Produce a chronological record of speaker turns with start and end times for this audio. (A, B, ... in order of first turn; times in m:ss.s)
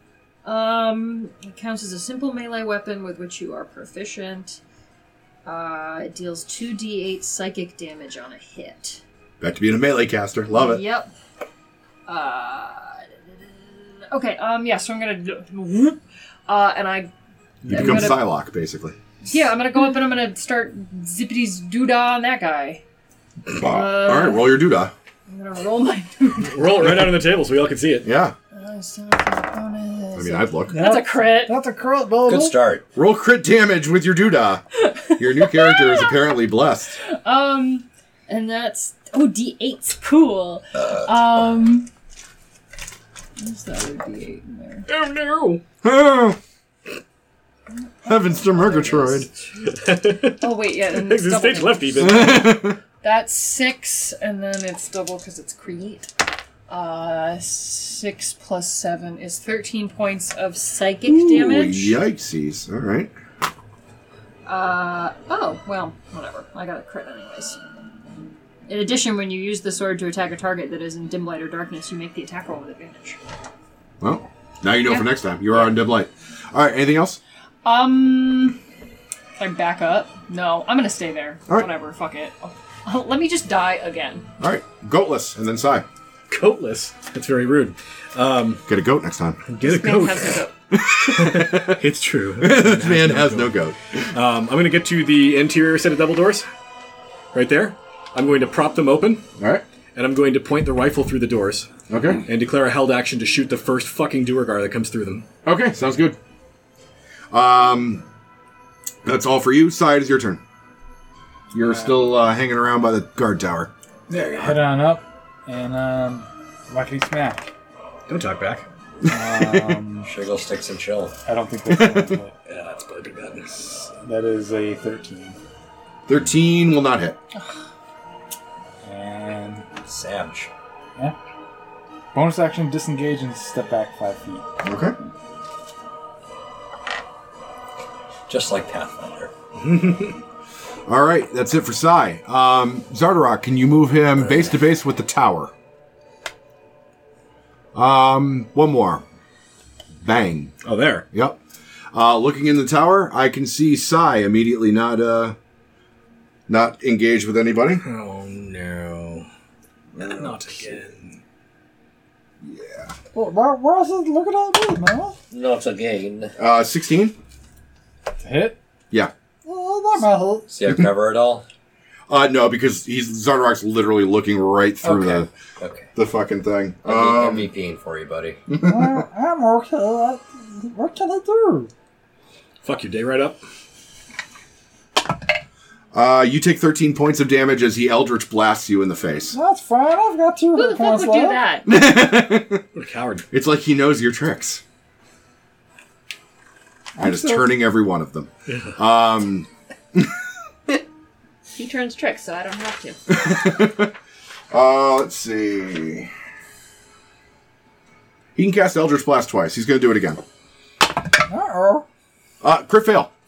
0:00.4-0:04.6 A
0:05.4-0:09.0 A
0:09.4-0:10.8 B
0:10.5-0:11.1 A
0:12.1-0:13.2 A
0:13.7-0:17.1 A
0:17.6-0:18.3 A
0:17.6-0:19.0 B
0:17.7-0:18.0 C
0:19.2-0:22.8 A
0:23.5-0:24.9 B
0:23.5-0:24.6 A
0:25.3-0:26.8 A
0:26.4-0:28.1 C
0:28.0-0:28.3 B
0:28.5-0:31.6 A
0:30.1-0:30.8 B
0:30.7-0:32.5 D
0:32.2-0:32.8 E
0:32.9-0:37.0 B
0:34.9-0:36.2 A
0:37.0-0:41.9 A
0:40.8-0:41.3 E
0:43.4-0:44.9 A
0:44.9-0:45.6 C
0:45.8-0:46.4 B
0:47.7-0:49.7 A
0:48.0-0:49.3 B
0:49.6-0:52.7 C
0:50.2-0:56.1 A
0:52.0-0:52.8 B
0:56.7-1:02.0 A
1:01.0-1:03.1 B
1:04.4-1:07.7 A
1:08.7-1:13.2 A
1:14.0-1:17.2 B
1:17.6-1:18.6 A
1:19.4-1:24.3 A
1:24.4-1:25.8 B
1:26.3-1:28.6 C
1:28.7-1:29.4 B
1:29.4-1:30.4 C
1:29.6-1:30.5 F
1:30.7-1:33.8 B
1:31.1-1:33.6 C
1:34.1-1:36.5 C
1:37.3-1:39.2 C
1:39.4-1:39.6 B
1:39.9-1:41.7 C
1:41.9-1:42.2 B
1:42.2-1:45.2 C
1:45.4-1:46.2 B
1:47.3-1:48.0 B
1:49.0-1:50.4 B
1:51.5-1:53.7 B
1:51.6-1:52.0 G
1:54.1-1:57.5 G
1:58.1-1:58.6 C
1:59.0-1:59.8 B
1:59.1-2:00.1 G
2:00.0-2:01.1 E
2:01.2-2:02.3 G
2:01.7-2:02.2 B
2:02.5-2:03.6 C
2:03.6-2:05.4 G
2:06.1-2:07.2 B
2:08.8-2:09.6 G
2:09.8-2:10.5 E
2:12.1-2:14.9 G
2:14.6-2:15.0 B
2:18.3-2:19.3 E
2:19.6-2:20.2 C
2:20.9-2:25.5 B
2:27.7-2:29.0 B
2:30.0-2:30.5 B
2:30.6-2:31.0 C
2:31.1-2:31.4 B
2:31.9-2:35.4 B
2:36.5-2:37.8 B
2:37.8-2:39.3 C
2:39.9-2:40.4 B
2:40.0-2:41.2 C
2:42.4-2:42.9 B
2:43.1-2:45.2 D
2:45.3-2:46.3 E
2:46.4-2:47.1 B
2:48.2-2:48.6 G
2:49.4-2:50.4 D
2:50.5-2:51.4 E
2:52.1-2:55.3 B
2:54.8-2:55.9 E
2:55.9-2:57.5 B
2:56.8-2:58.4 E
2:58.5-2:59.0 B
2:58.6-3:01.7 D
3:02.6-3:03.4 C
3:05.9-3:09.4 B
3:09.3-3:11.4 D
3:10.6-3:11.7 F
3:11.6-3:12.6 B
3:12.7-3:13.3 C
3:13.3-3:14.6 B
3:17.0-3:17.4 D
3:17.0-3:20.1 B
3:18.5-3:18.7 C
3:21.6-3:23.0 F
3:23.1-3:23.9 B
3:24.5-3:26.1 B
3:28.4-3:30.2 B
3:31.3-3:31.8 D
3:32.4-3:33.1 B